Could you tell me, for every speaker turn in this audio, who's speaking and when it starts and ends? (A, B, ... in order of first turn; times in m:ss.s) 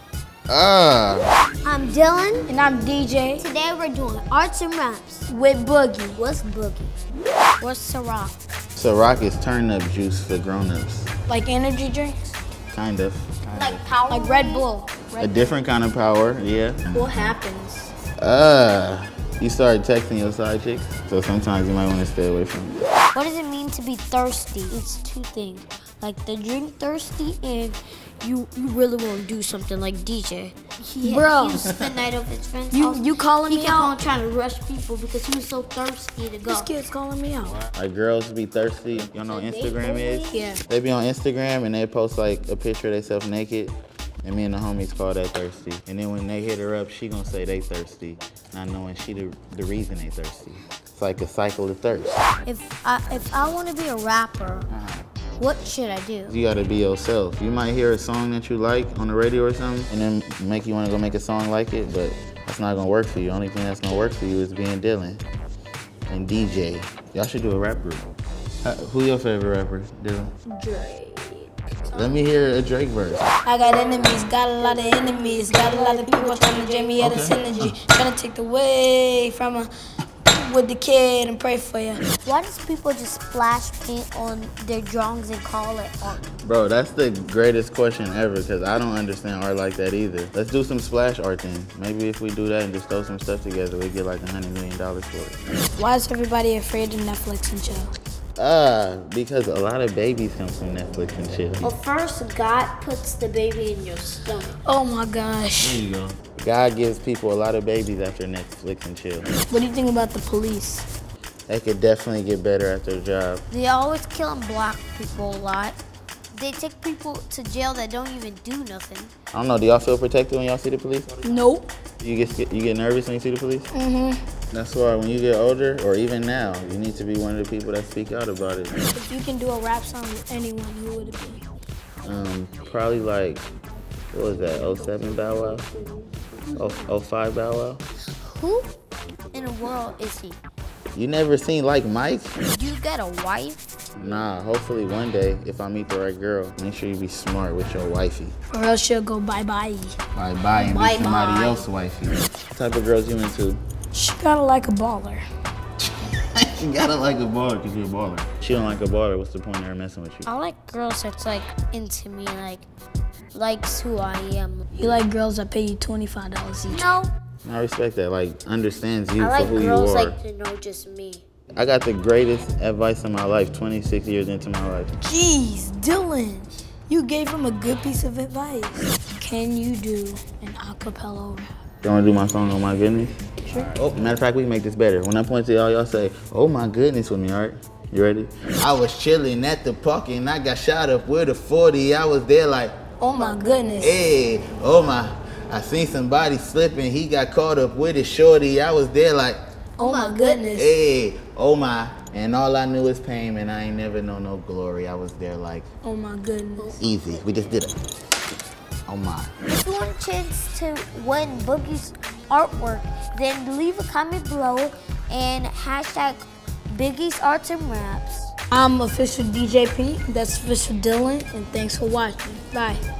0:00.5-0:01.3 A
0:01.6-0:02.5 B
0:02.5-0:03.4 C
0:03.4-0:05.3 B
0:05.3-0:06.2 C
0:06.2-0:07.0 B
0:07.6-0:08.4 B
0:08.8-0:11.1 A
0:11.3-0:12.2 C
0:12.7-0:13.9 A
0:13.5-0:14.7 B
0:14.1-0:15.4 C
0:15.2-0:17.4 A
0:16.9-0:17.9 C
0:18.2-0:22.8 A
0:23.1-0:36.7 B
0:31.0-0:31.6 C
0:32.7-0:34.0 C
0:36.4-0:37.6 C
0:37.6-0:52.2 A
0:39.3-0:40.5 B
0:40.3-0:40.6 C
0:52.4-0:54.7 B
0:54.7-0:55.1 A
0:55.4-0:56.4 B
0:56.3-1:05.2 A
1:06.1-1:08.0 A
1:08.6-1:10.3 A
1:10.5-1:12.2 B
1:11.9-1:13.3 A
1:13.4-1:19.7 C
1:13.7-1:17.7 B
1:17.0-1:17.8 A
1:20.3-1:22.0 C
1:22.2-1:26.2 B
1:26.4-1:35.4 A
1:35.8-1:37.9 C
1:38.4-1:41.7 A
1:41.6-1:44.6 B
1:44.6-1:45.8 C
1:45.6-1:49.3 A
1:49.5-1:50.9 C
1:51.5-1:53.4 A
1:53.5-1:55.8 B
1:56.3-1:59.1 B
1:59.3-2:01.1 A
2:01.2-2:01.7 C
2:02.0-2:03.7 A
2:03.7-2:04.2 C
2:04.5-2:08.8 A
2:08.9-2:11.4 C
2:12.0-2:13.4 A
2:14.1-2:15.7 A
2:15.7-2:16.1 B
2:16.5-2:17.8 A
2:18.2-2:18.7 B
2:19.3-2:20.4 B
2:20.9-2:22.3 A
2:22.5-2:23.6 B
2:24.0-2:28.3 A
2:28.5-2:29.9 C
2:30.2-2:33.6 A
2:30.5-2:31.7 B
2:33.9-2:35.2 C
2:35.8-2:40.3 A
2:40.2-2:42.7 B
2:43.3-2:44.6 B
2:44.8-2:46.9 C
2:46.7-2:47.1 B
2:47.4-2:50.2 A
2:49.2-2:51.2 B
2:51.6-2:54.9 A
2:55.0-3:01.5 C
3:01.8-3:03.2 A
3:03.4-3:03.8 C
3:03.7-3:12.9 A
3:13.0-3:14.0 C
3:13.1-3:13.7 B
3:13.8-3:19.4 A
3:19.8-3:20.8 C
3:19.8-3:20.4 B
3:20.5-3:25.7 A
3:25.8-3:26.7 C
3:26.6-3:27.2 B
3:26.8-3:27.8 A
3:28.9-3:29.3 A
3:29.5-3:38.3 B
3:38.5-3:42.8 C